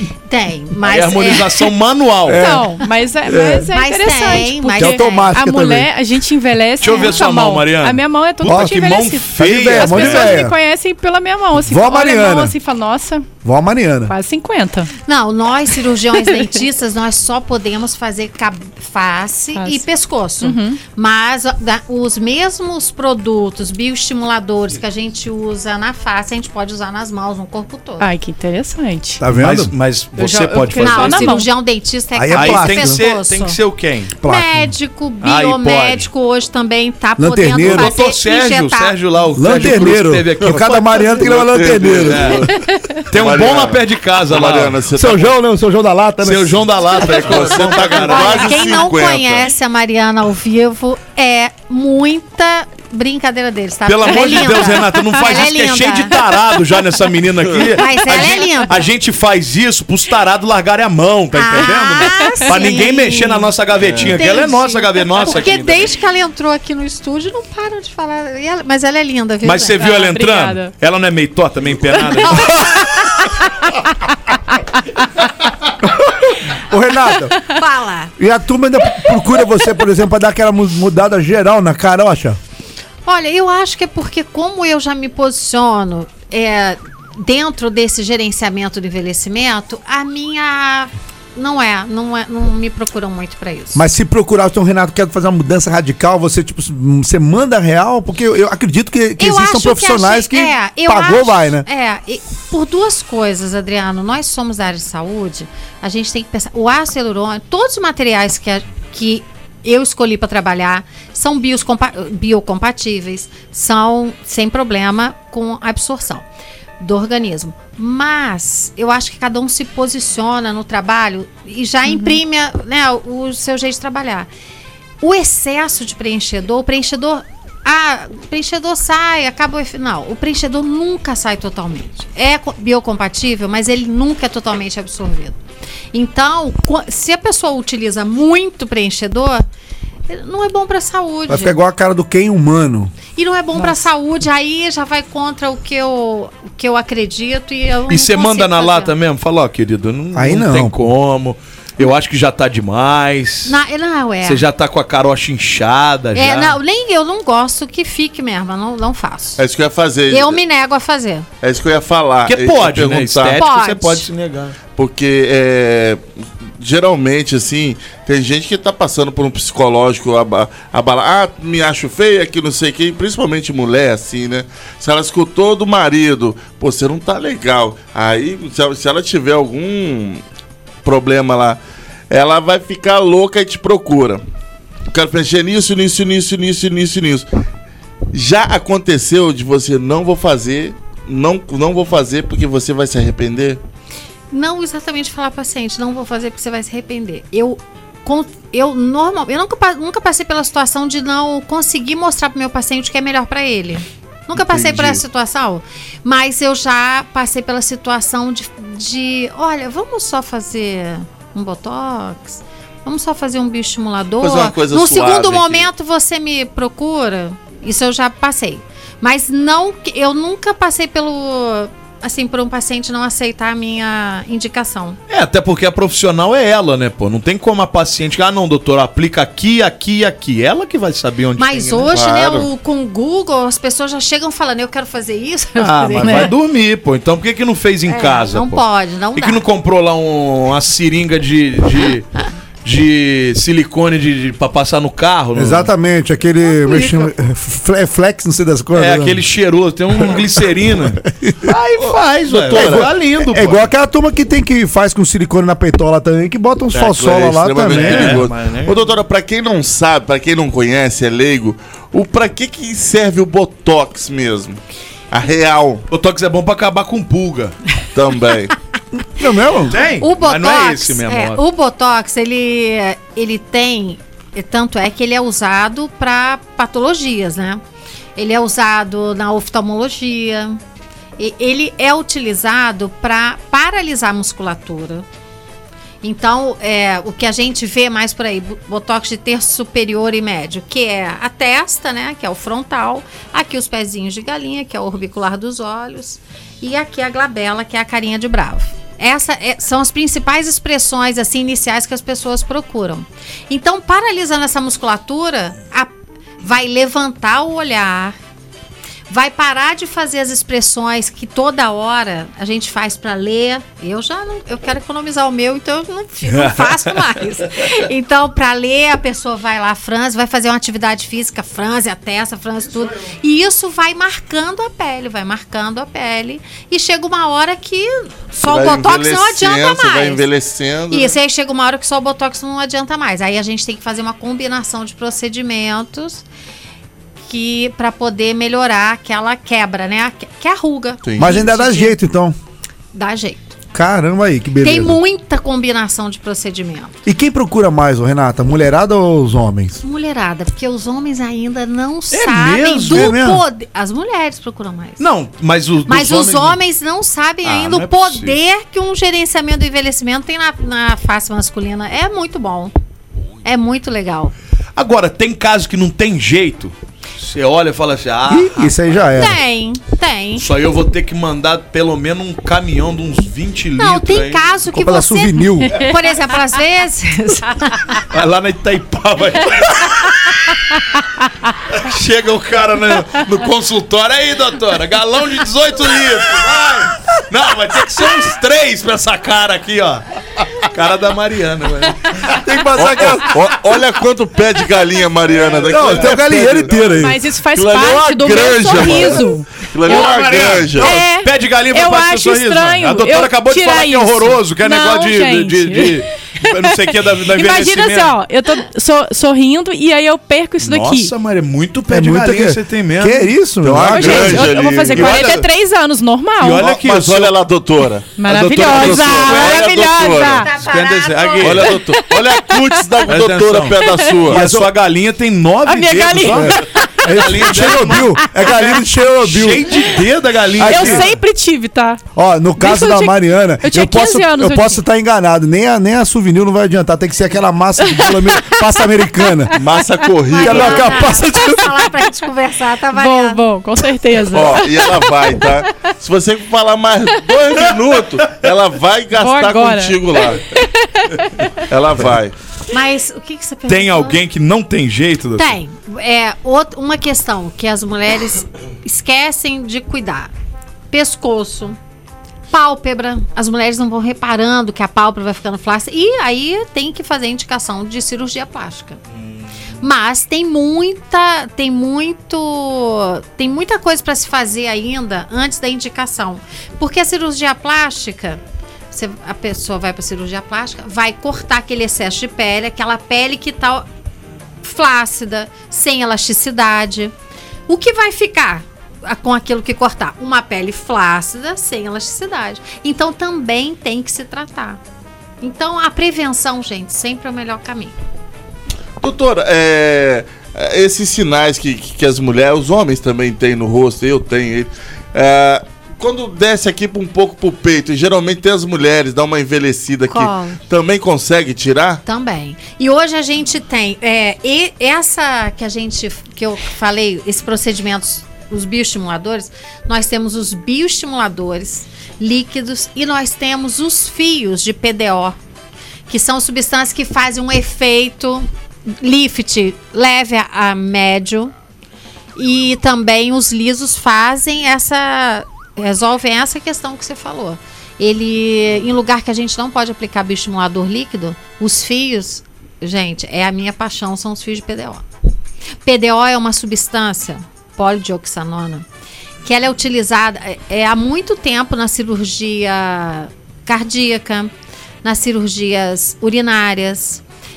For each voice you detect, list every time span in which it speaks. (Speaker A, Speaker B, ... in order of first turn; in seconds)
Speaker A: 0.3-1.7, 3.7-5.3, 6.9-7.2, 15.0-28.1, 30.8-33.6, 34.2-39.0, 39.5-39.8, 48.0-56.2, 57.7-58.9, 61.3-63.5, 64.1-69.8, 72.3-72.9, 77.5-78.1, 83.1-93.8, 99.2-116.3, 116.8-124.3, 125.0-135.4, 135.9-139.4, 140.1-141.6, 143.1-148.9, 153.4-154.4, 156.1-159.4, 160.1-161.3, 163.3-164.1, 194.3-225.0, 231.4-236.3, 237.9-239.4, 270.0-277.6, 278.2-280.6, 281.2-285.1, 286.0-308.2, 309.1-330.2, 330.9-336.2, 337.3-342.0, 342.9-343.6, 344.6-346.9, 349.8-355.1, 355.9-362.7, 363.4-364.3, 369.1-370.5, 373.8-378.0, 420.4-421.9, 440.3-443.4, 452.7-454.2, 455.4-460.3, 460.9-461.8, 462.5-469.0, 469.8-483.9, 484.6-487.1, 487.7-494.8, 495.4-498.0, 510.1-510.6, 512.0-525.4, 526.1-531.5, 532.4-545.0, 545.9-548.9, 549.5-554.5, 555.0-557.2
Speaker B: 0.8-2.5, 6.8-10.4, 29.3-31.4, 32.3-34.1, 35.2-36.1, 37.6-42.5, 43.1-44.8, 46.2-48.5, 53.9-65.9, 69.4-72.8, 147.9-153.6, 154.2-156.6, 162.3-164.6, 225.1-231.9, 235.6-238.6, 239.2-242.1, 242.7-245.7, 246.6-247.1, 248.8-253.7, 257.7-258.9, 265.9-267.5, 269.7-271.4, 316.3-317.0, 352.1-353.2, 355.0-356.6, 357.4-358.4, 364.8-369.0, 370.4-374.6, 378.1-380.4, 381.7-390.1, 390.6-392.3, 392.9-393.1, 395.6-395.9, 399.8-408.1, 410.6-413.3, 413.9-415.5, 416.4-417.4, 418.3-419.6, 420.6-421.8, 423.1-431.1, 453.7-455.6, 469.2-469.4
Speaker C: 2.3-3.7, 4.8-5.9, 8.4-10.6, 11.6-12.6, 13.4-14.1, 29.2-29.7, 32.1-33.0, 34.2-34.8, 37.2-38.0, 39.4-42.5, 44.9-46.6, 75.8-77.4, 78.2-82.4, 93.8-101.7, 141.3-142.9, 150.1-150.8, 245.3-249.2, 251.2-251.5, 252.5-258.2, 269.1-269.8, 341.2-342.4, 343.7-345.0, 347.1-349.8, 352.9-353.4, 368.3-369.4, 374.7-375.7, 392.4-393.4, 395.7-397.2, 411.9-414.6, 424.3-424.7, 426.2-429.9, 430.6-431.1, 432.1-439.6, 440.4-441.9
Speaker D: 2.3-13.3, 14.1-14.9, 19.6-19.8, 20.4-20.8, 28.0-29.2, 30.2-31.5, 54.5-55.1, 62.0-62.8, 69.8-70.7, 121.9-122.2, 143.6-143.9, 396.8-406.6, 407.2-411.1, 413.9-416.6, 418.2-420.5, 422.0-422.7, 425.7-427.2, 430.6-432.0, 432.6-434.8, 437.9-438.6, 442.9-445.9, 449.1-451.5
Speaker E: 41.2-42.6, 43.1-45.4, 47.0-49.5, 159.4-160.4, 161.4-163.4, 164.8-166.0, 166.6-180.2, 180.8-181.6, 182.1-184.2, 184.9-187.3, 188.1-193.6, 204.4-205.0, 214.2-215.7, 231.9-232.5, 252.3-252.9, 256.7-264.6, 265.1-265.8, 267.9-268.5, 328.4-331.1, 341.0-341.5, 392.7-400.9, 413.6-415.4, 416.6-420.5, 421.4-424.4, 439.5-441.1, 444.3-450.4, 451.7-452.3, 499.0-512.0